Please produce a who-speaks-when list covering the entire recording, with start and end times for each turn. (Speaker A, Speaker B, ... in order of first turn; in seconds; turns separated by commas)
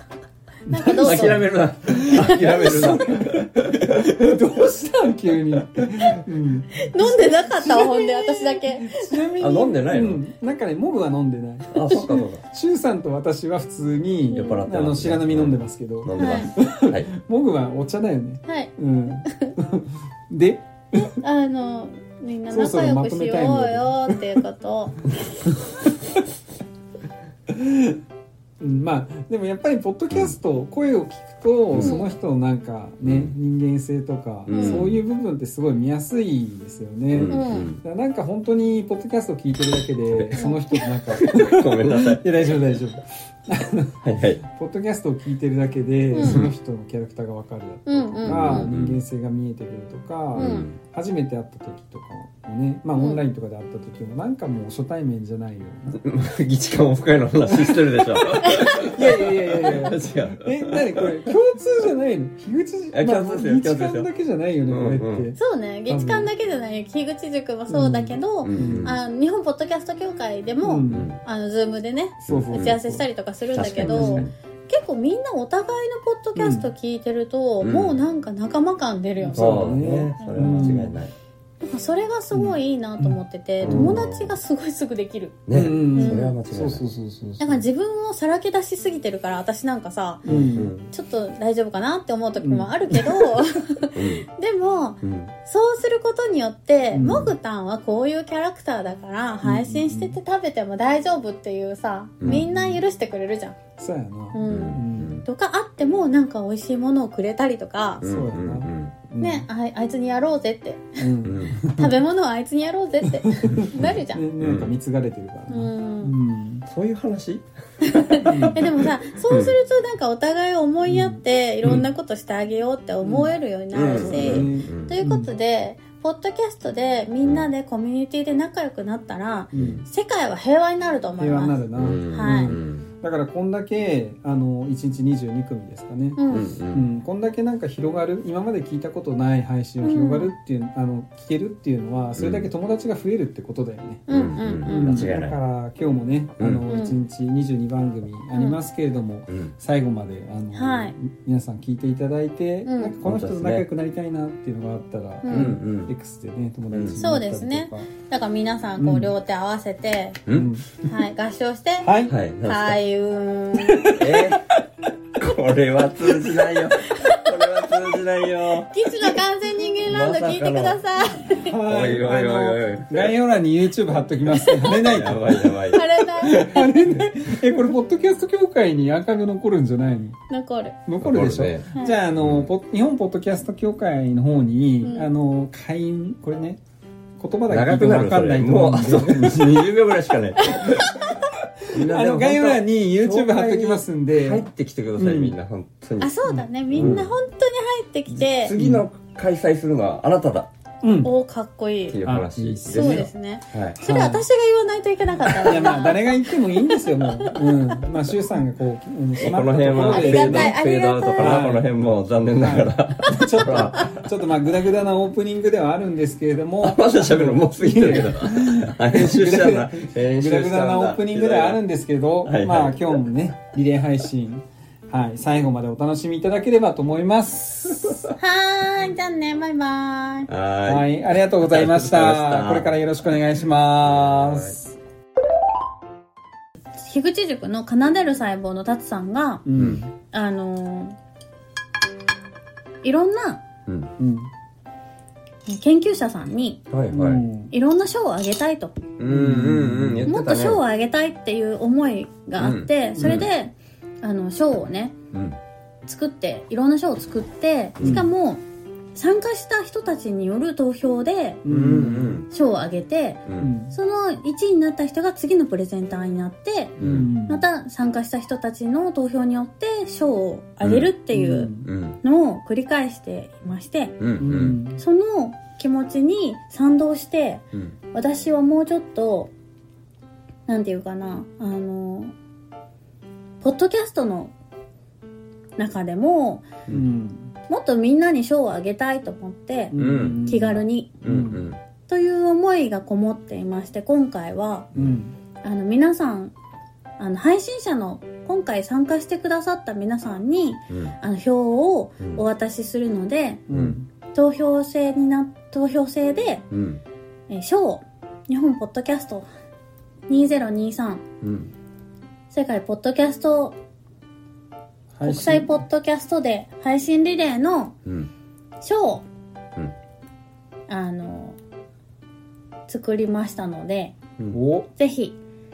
Speaker A: 0.7-1.5, Speaker B: 0.7-21.1, Speaker C: 0.9-4.5, Speaker C: 5.8-6.2, Speaker A: 6.7-9.1, Speaker C: 9.4-10.2, Speaker C: 11.7-12.4, Speaker C: 14.3-17.1, Speaker A: 14.3-14.6, Speaker A: 16.1-16.5, Speaker A: 18.4-19.6, Speaker A: 20.9-25.0, Speaker B: 22.5-24.4, Speaker B: 25.5-26.2, Speaker B: 27.5-28.0, Speaker B: 28.6-56.0, Speaker C: 31.7-32.0, Speaker A: 31.8-32.1, Speaker C: 33.0-33.3, Speaker C: 34.5-35.0, Speaker A: 34.5-34.9, Speaker C: 37.1-37.8, Speaker A: 37.3-37.7, Speaker C: 40.1-40.5, Speaker A: 40.4-40.6, Speaker C: 41.1-42.3, Speaker C: 44.0-44.4, Speaker A: 46.1-46.4, Speaker C: 46.2-46.5, Speaker A: 47.9-48.7, Speaker C: 48.2-49.0, Speaker C: 50.3-50.8, Speaker A: 50.4-50.7, Speaker C: 55.9-61.1, Speaker B: 57.5-66.3, Speaker A: 58.4-58.9, Speaker C: 62.9-64.1, Speaker C: 64.7-65.3, Speaker A: 65.4-80.9, Speaker B: 67.7-69.0, Speaker C: 68.4-69.0, Speaker B: 70.6-71.1, Speaker C: 70.9-71.2, Speaker C: 72.3-72.8, Speaker B: 72.3-73.0, Speaker C: 73.5-74.3, Speaker B: 73.7-74.3, Speaker B: 76.3-76.7, Speaker C: 77.6-78.0, Speaker B: 79.2-81.0, Speaker C: 79.3-81.1, Speaker A: 81.6-85.4, Speaker B: 82.3-84.1, Speaker C: 83.6-84.3, Speaker C: 85.5-86.8, Speaker B: 85.5-87.6, Speaker A: 85.9-86.3, Speaker A: 87.4-90.2, Speaker C: 90.2-90.9, Speaker B: 90.2-90.7, Speaker A: 90.9-103.6, Speaker B: 92.4-93.4, Speaker C: 93.9-94.3, Speaker C: 95.0-95.3, Speaker B: 96.9-97.3, Speaker C: 97.0-97.3, Speaker B: 99.4-100.2, Speaker C: 102.2-102.5, Speaker B: 102.2-102.8, Speaker B: 103.8-105.2, Speaker A: 104.3-108.0, Speaker C: 104.5-105.2, Speaker C: 108.0-109.0, Speaker B: 108.0-109.5, Speaker A: 109.2-111.0, Speaker B: 111.0-112.0, Speaker C: 111.2-111.7, Speaker A: 111.7-114.2, Speaker B: 113.1-116.7, Speaker C: 113.8-114.8, Speaker A: 115.5-116.1, Speaker C: 116.7-119.5, Speaker A: 117.8-132.5, Speaker B: 118.2-118.6, Speaker B: 120.8-121.2, Speaker B: 123.0-125.3, Speaker C: 123.7-124.9, Speaker B: 129.5-129.8, Speaker C: 129.5-129.8, Speaker B: 131.2-157.9, Speaker C: 131.7-132.9, Speaker A: 136.2-136.5, Speaker C: 136.3-136.9, Speaker A: 139.8-140.3, Speaker C: 142.2-142.5, Speaker A: 144.1-145.1, Speaker C: 144.1-145.4, Speaker C: 146.4-146.7, Speaker A: 146.7-147.0, Speaker A: 148.3-148.6, Speaker C: 149.3-149.5, Speaker A: 150.5-150.9, Speaker A: 152.6-152.9, Speaker C: 153.0-153.6, Speaker A: 155.2-155.6, Speaker C: 155.3-155.9, Speaker C: 156.7-157.0, Speaker A: 156.9-160.2, Speaker B: 158.8-159.1, Speaker C: 160.3-160.6, Speaker B: 160.3-160.8, Speaker A: 160.8-161.9, Speaker B: 161.8-162.1, Speaker C: 162.1-162.8, Speaker A: 162.4-164.0, Speaker B: 163.7-164.3, Speaker C: 164.0-164.6, Speaker C: 165.2-168.7, Speaker A: 166.9-167.2, Speaker A: 168.6-171.6, Speaker C: 169.8-170.8, Speaker B: 171.4-180.2, Speaker C: 171.6-173.2, Speaker A: 174.3-174.8, Speaker C: 174.4-177.2, Speaker A: 175.7-176.9, Speaker A: 180.3-180.8, Speaker B: 180.8-186.6, Speaker C: 181.0-182.5, Speaker A: 184.8-185.1, Speaker B: 187.2-189.7, Speaker C: 187.5-191.0, Speaker A: 190.4-190.9, Speaker B: 190.7-195.3, Speaker C: 191.7-196.1, Speaker A: 196.0-198.5, Speaker B: 196.3-197.1, Speaker C: 196.7-197.1, Speaker C: 198.1-200.5, Speaker B: 198.6-198.8, Speaker B: 200.8-201.1, Speaker A: 201.0-202.0, Speaker C: 201.9-203.8, Speaker B: 202.0-203.1, Speaker A: 202.7-207.8, Speaker B: 203.8-204.2, Speaker B: 205.4-210.6, Speaker C: 209.2-214.0, Speaker A: 209.7-211.4, Speaker B: 211.2-211.7, Speaker B: 212.4-228.1, Speaker C: 216.6-221.6, Speaker C: 222.2-223.0, Speaker A: 228.2-230.3, Speaker C: 230.3-232.8, Speaker B: 230.7-234.7, Speaker C: 233.8-234.6, Speaker A: 236.8-239.4, Speaker B: 239.4-239.9, Speaker C: 239.6-239.8, Speaker A: 240.1-240.9, Speaker A: 242.8-243.4, Speaker C: 243.7-243.9, Speaker B: 244.0-244.3, Speaker A: 245.5-246.6, Speaker C: 246.7-247.2, Speaker B: 246.9-247.5, Speaker A: 247.5-248.8, Speaker C: 249.0-250.6, Speaker B: 249.1-250.1, Speaker A: 250.1-254.9, Speaker C: 252.4-253.3, Speaker B: 253.0-253.2, Speaker C: 255.1-255.4, Speaker A: 255.8-258.4, Speaker C: 257.8-258.1, Speaker B: 257.8-258.1, Speaker A: 258.9-261.4, Speaker B: 261.4-262.2, Speaker C: 261.5-262.3, Speaker A: 262.3-273.9, Speaker C: 263.3-263.5, Speaker B: 263.4-263.8, Speaker C: 266.8-267.1, Speaker B: 266.8-267.4, Speaker C: 270.6-270.9, Speaker B: 271.1-271.7, Speaker C: 271.6-272.0, Speaker C: 274.0-274.6, Speaker B: 274.2-274.8, Speaker A: 274.8-279.3, Speaker A: 280.5-282.1, Speaker A: 283.4-284.3, Speaker A: 285.6-286.5, Speaker B: 286.7-287.3, Speaker A: 287.5-290.9, Speaker B: 289.7-291.5, Speaker C: 289.7-290.3, Speaker C: 291.0-291.6, Speaker A: 291.9-294.7, Speaker B: 294.7-295.1, Speaker A: 295.4-296.3, Speaker A: 297.0-303.4, Speaker C: 300.7-300.9, Speaker C: 302.0-302.2, Speaker B: 303.5-303.9, Speaker C: 303.5-303.8, Speaker A: 304.1-306.5, Speaker C: 306.5-306.8, Speaker A: 307.3-309.3, Speaker A: 310.1-311.0, Speaker C: 311.2-311.5, Speaker A: 312.3-313.5, Speaker B: 314.9-315.6, Speaker A: 315.0-317.7, Speaker C: 317.8-318.1, Speaker A: 318.6-319.1, Speaker A: 320.7-321.4, Speaker A: 322.7-323.9, Speaker B: 324.3-324.7, Speaker A: 324.8-325.2